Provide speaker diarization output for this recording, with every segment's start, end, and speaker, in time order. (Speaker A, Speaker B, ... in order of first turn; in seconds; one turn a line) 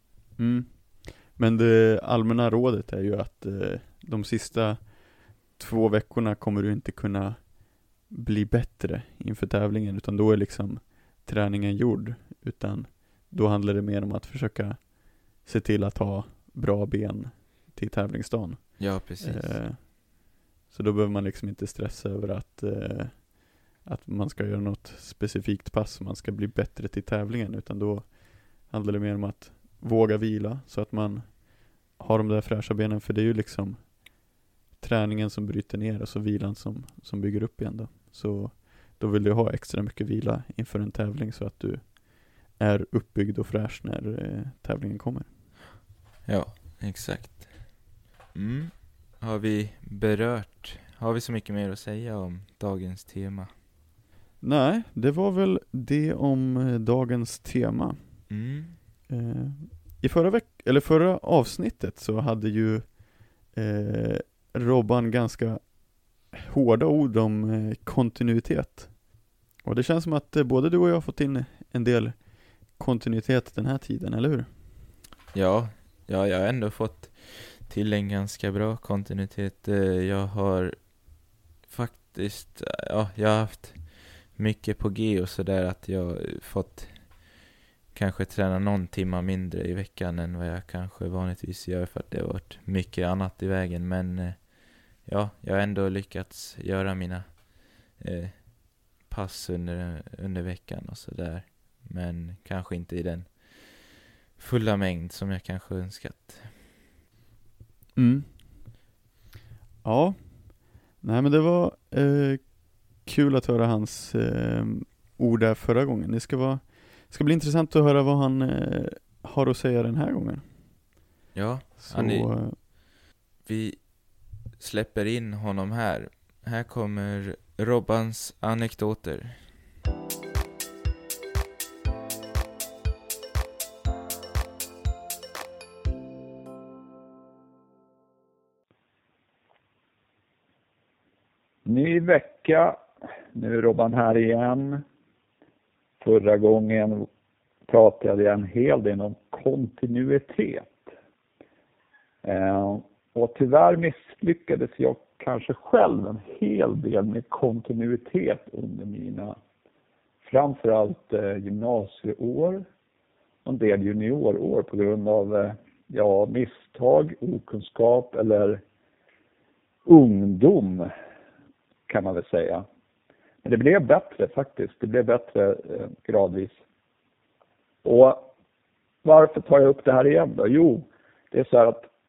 Speaker A: 0.4-20.1
Speaker B: 18.8-19.6
Speaker A: 20.7-34.2
Speaker A: 34.8-45.4
Speaker B: 46.2-53.5
Speaker A: 54.4-58.3
Speaker B: 58.3-58.8
Speaker A: 59.1-69.0
Speaker A: 69.6-74.7
Speaker B: 75.3-87.4
Speaker B: 87.9-106.7
Speaker A: 108.0-108.5
Speaker A: 109.8-120.9
Speaker B: 121.3-122.6
Speaker A: 121.8-122.6
Speaker B: 123.4-129.5
Speaker C: 141.6-142.8
Speaker C: 143.3-144.8
Speaker C: 146.0-147.1
Speaker C: 147.7-150.7
Speaker C: 152.2-159.4
Speaker C: 160.2-162.7
Speaker C: 163.4-168.6
Speaker C: 169.8-170.9
Speaker C: 171.9-172.7
Speaker C: 173.4-176.6
Speaker C: 177.8-178.3
Speaker C: 179.0-181.9